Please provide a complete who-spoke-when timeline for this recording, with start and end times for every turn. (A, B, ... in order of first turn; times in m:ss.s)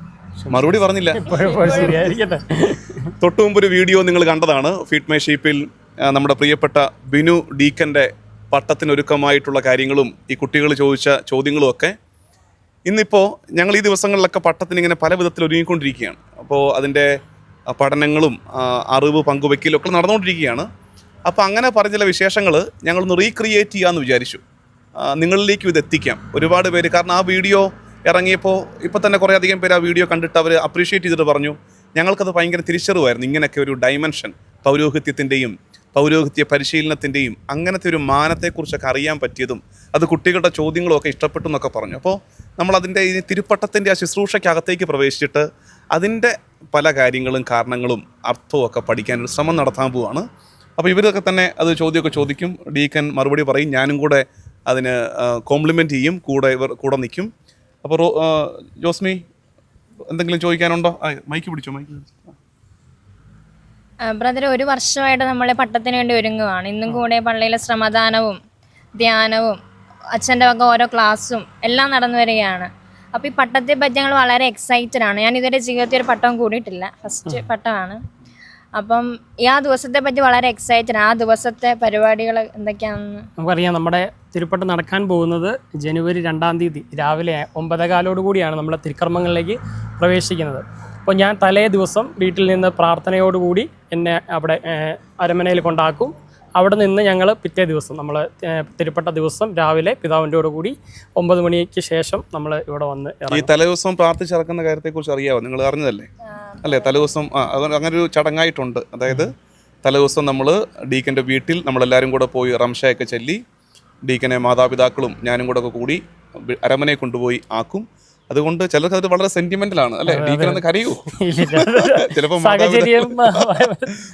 0:00.4-0:03.0 A
0:00.5-0:01.3 B
0:01.4-0:01.8 C
0:03.2-0:11.9 B
0:12.9-0:17.1 B
0:17.7-0:20.6 B
0:21.3-0:24.4 B
0:25.0-0:50.2 B
0:50.8-0:57.3 B
0:57.8-0:59.2 B
1:00.1-1:02.3 B
1:04.0-1:08.4 C
1:08.9-1:09.6 C
1:10.1-1:18.0 C
1:18.7-1:23.3 C
1:23.4-1:43.5 A
1:43.3-1:46.1 B
1:46.3-1:47.1 C
1:46.6-1:49.3 B
1:49.8-1:53.4 B
1:54.0-2:03.4 B
2:00.1-2:03.9 A